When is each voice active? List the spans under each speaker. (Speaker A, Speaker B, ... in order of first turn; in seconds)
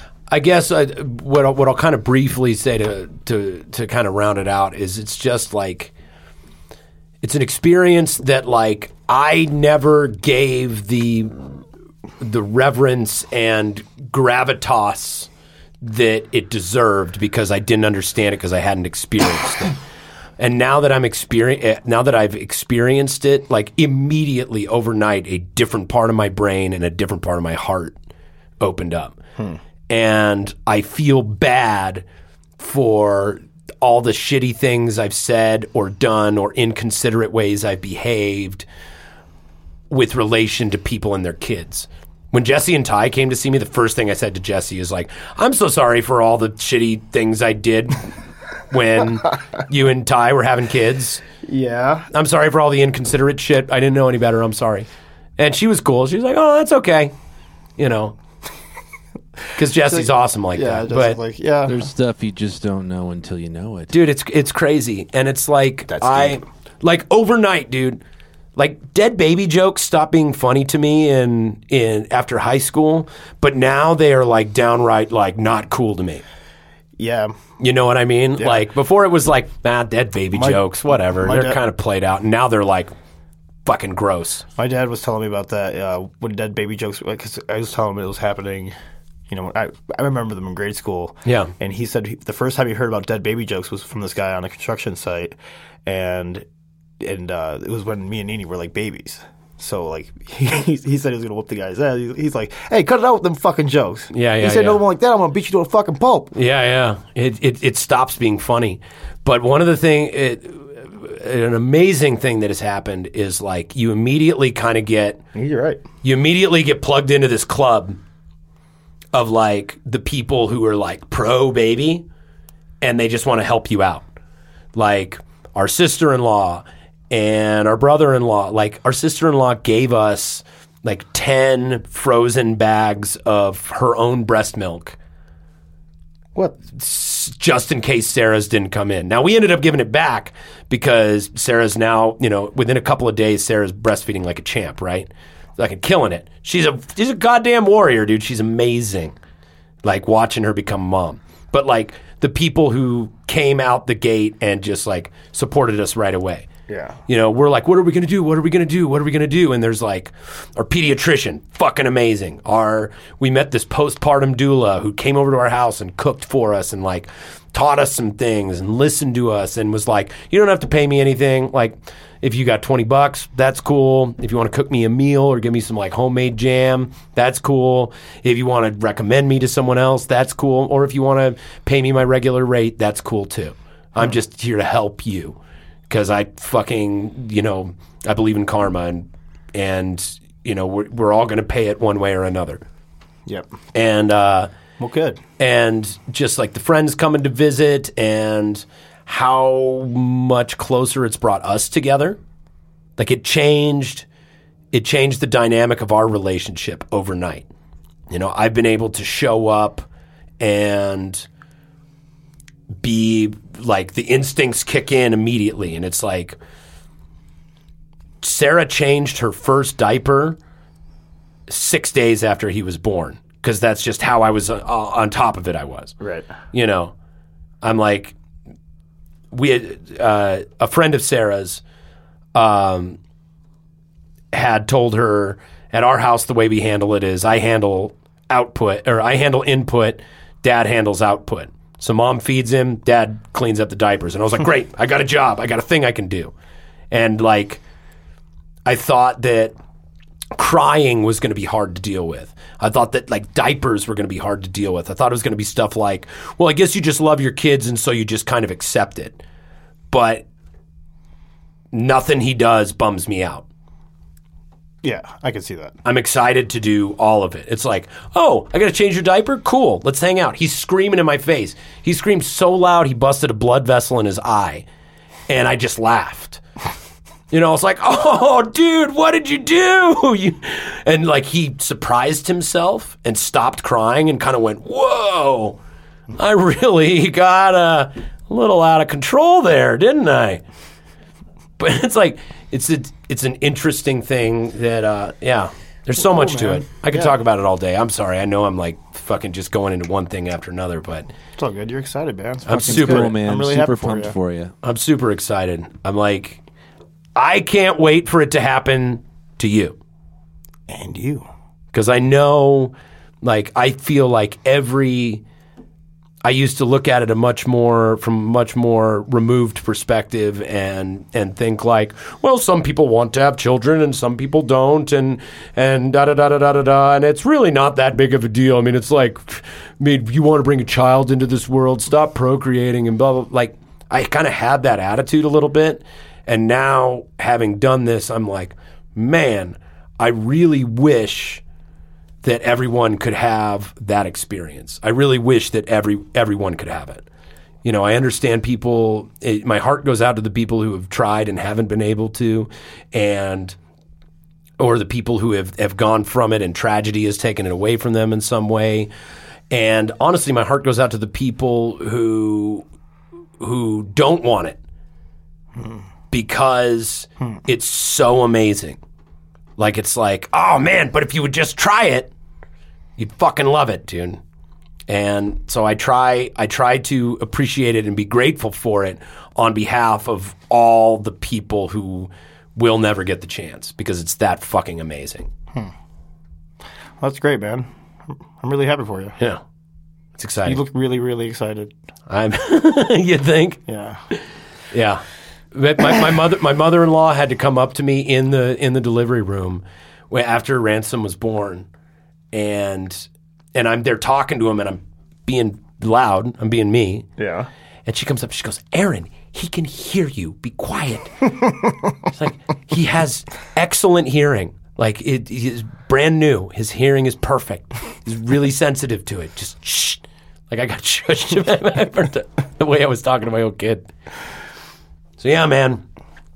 Speaker A: 0.3-5.9, 7.2-11.6, 12.2-15.3, 15.8-19.8, 20.4-28.0, 28.6-29.2, 29.9-32.0, 32.6-38.7, 39.9-48.0, 48.7-51.2, 52.1-57.1, 57.8-58.2, 59.6-61.2, 63.9-68.0, 68.6-76.2, 77.6-82.9, 83.7-84.5, 91.2-91.5, 104.1-104.8, 106.3-115.2, 116.0-118.0, 119.1-122.0, 122.8-124.0, 124.7-135.0, 136.7-149.2, 149.8-156.5, 157.1-185.4, 185.9-192.6, 193.7-194.5, 195.4-202.2, 203.0-204.1, 204.7-207.5, 208.1-209.9, 210.4-211.3, 212.8-216.4, 218.2-220.4, 221.5-225.9, 226.5-226.9, 227.6-228.2, 229.3-231.6, 232.3-233.0, 234.3-246.3, 246.9-247.6, 248.7-249.6, 250.4-259.2, 259.9-260.3, 261.7-263.5, 265.9-274.7, 275.3-276.4, 277.3-285.6, 286.2-290.4, 291.6-301.1, 302.5-303.1, 304.6-306.4, 307.2-309.8, 311.7-315.2, 316.2-341.4, 342.2-347.0, 347.6-353.6, 354.6-358.9, 359.5-362.7, 363.4-364.6, 366.1-368.8, 369.6-372.1, 373.0-374.2, 374.9-385.3, 390.2-390.6, 392.1-393.6, 394.7-395.0, 395.5-401.7, 402.3-407.1, 407.9-411.5, 412.1-423.9, 425.2-425.8
Speaker B: 51.5-52.1, 59.9-61.8, 65.9-66.4, 77.0-77.4, 80.3-81.6, 84.6-88.7, 89.3-96.5, 97.0-106.3, 115.3-115.8, 156.7-157.0, 194.8-195.2, 226.0-226.3, 264.8-265.8, 296.0-297.1, 301.4-304.2, 310.7-311.3, 387.0-387.7, 388.2-389.2, 390.4-391.7, 393.7-394.0, 407.2-407.5
Speaker C: 61.7-63.9, 302.5-304.5